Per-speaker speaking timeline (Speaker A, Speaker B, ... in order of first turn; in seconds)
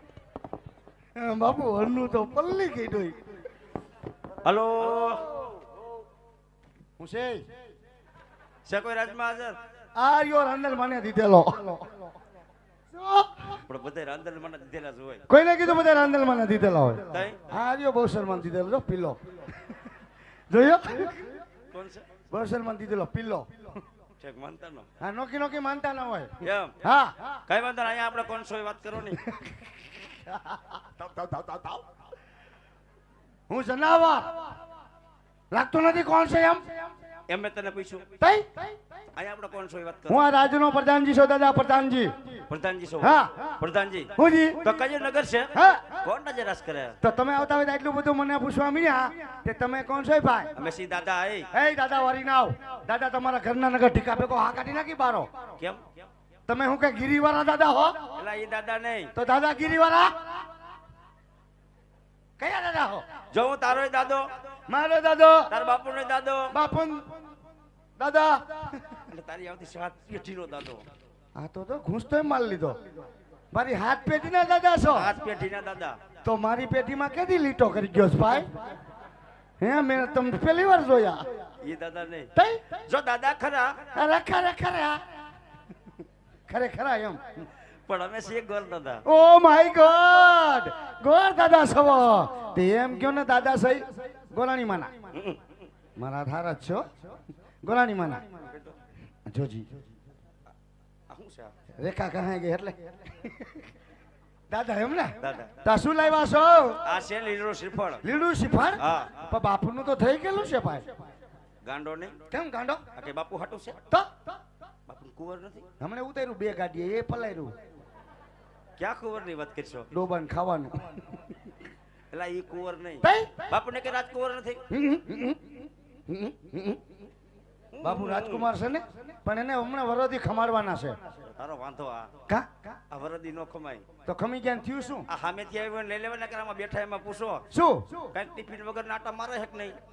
Speaker A: 1.2-3.2, 7.0-7.5, 10.0-11.9, 13.0-13.5, 15.3-19.2, 20.5-21.2, 22.3-23.7, 25.0-27.1, 30.3-31.8, 33.5-34.3, 35.5-36.7, 38.2-38.7, 40.1-42.1, 43.0-43.5, 44.2-44.6, 45.5-46.0, 47.0-50.5, 51.5-55.3, 56.5-58.0, 59.1-60.1, 62.4-63.0, 64.7-65.5, 66.5-67.1, 68.0-69.0, 71.4-72.8, 73.5-75.1, 76.2-78.5, 79.6-81.3, 82.4-82.7, 83.9-85.0, 86.5-87.4, 89.1-94.9, 96.0-96.9, 97.6-98.2, 99.3-99.7, 101.8-103.6, 104.5-106.8, 108.0-110.9, 112.3-112.8, 115.8-117.5, 119.9-120.8, 123.0-123.3, 124.7-125.4, 126.1-126.8, 127.8-131.0, 132.3-132.6, 134.1-135.1, 137.5-138.1
Speaker B: 4.4-5.5, 8.7-9.6, 13.7-15.2, 17.1-17.5, 21.7-22.1, 24.2-24.9, 26.4-26.8, 27.5-29.2, 37.3-38.1, 39.1-40.3, 42.5-47.0, 50.6-51.5, 58.2-59.1, 63.3-64.3, 65.5-66.5, 69.1-70.8, 74.9-76.0, 81.6-82.3, 82.9-83.9, 87.9-89.0, 95.1-95.4, 98.5-98.8, 101.1-101.5, 105.2-105.6, 106.8-108.0, 108.8-109.2, 111.6-112.2, 113.0-113.8, 114.9-115.7, 118.8-119.9, 122.1-124.6, 127.7-128.5, 131.3-132.1, 132.9-133.8, 135.1-137.5, 138.1-139.8